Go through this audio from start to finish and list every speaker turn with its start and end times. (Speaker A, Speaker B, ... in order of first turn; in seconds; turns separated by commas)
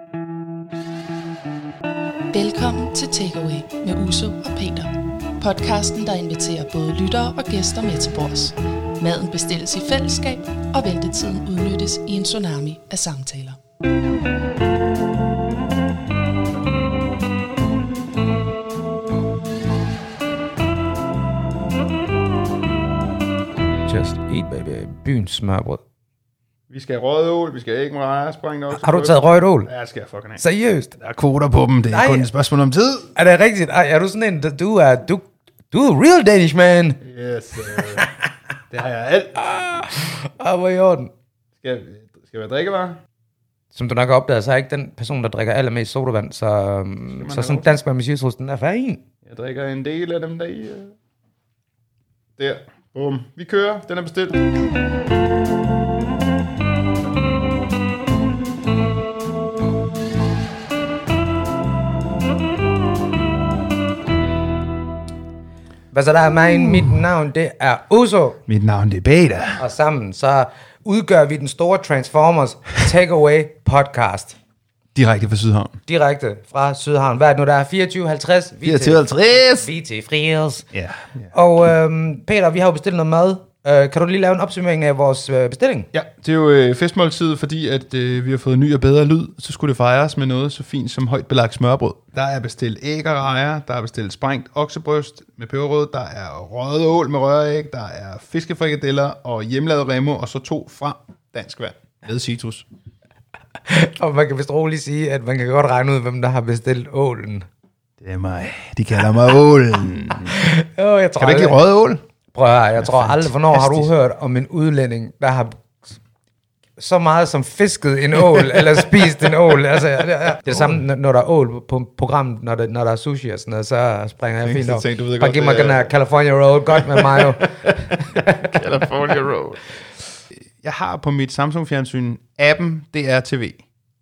Speaker A: 2.3-13.6, Speaker B: 23.8-25.8, Speaker C: 26.7-30.4, Speaker B: 28.7-29.7, Speaker B: 30.4-30.9, Speaker C: 31.0-33.1, Speaker B: 31.9-32.3, Speaker B: 33.1-37.0, Speaker C: 37.0-38.1, Speaker B: 37.7-38.1, Speaker C: 38.7-39.5, Speaker B: 39.5-41.1, Speaker C: 41.6-43.0, Speaker B: 43.7-49.0, Speaker C: 47.2-47.7, Speaker C: 49.2-51.0, Speaker C: 52.4-54.5, Speaker B: 65.9-68.4, Speaker C: 68.5-69.6, Speaker B: 69.6-74.4, Speaker C: 75.0-75.8, Speaker B: 75.9-80.7, Speaker C: 78.6-79.7, Speaker C: 80.7-81.3, Speaker B: 81.3-85.9, Speaker C: 85.9-102.7, Speaker B: 103.7-107.5, Speaker C: 108.0-110.4, Speaker B: 110.3-111.6, Speaker C: 111.2-112.0, Speaker B: 112.3-115.9, Speaker C: 112.8-113.9, Speaker B: 116.8-128.6, Speaker C: 118.3-118.6, Speaker C: 120.5-120.8, Speaker C: 124.4-125.9, Speaker C: 126.7-129.7, Speaker C: 130.6-133.6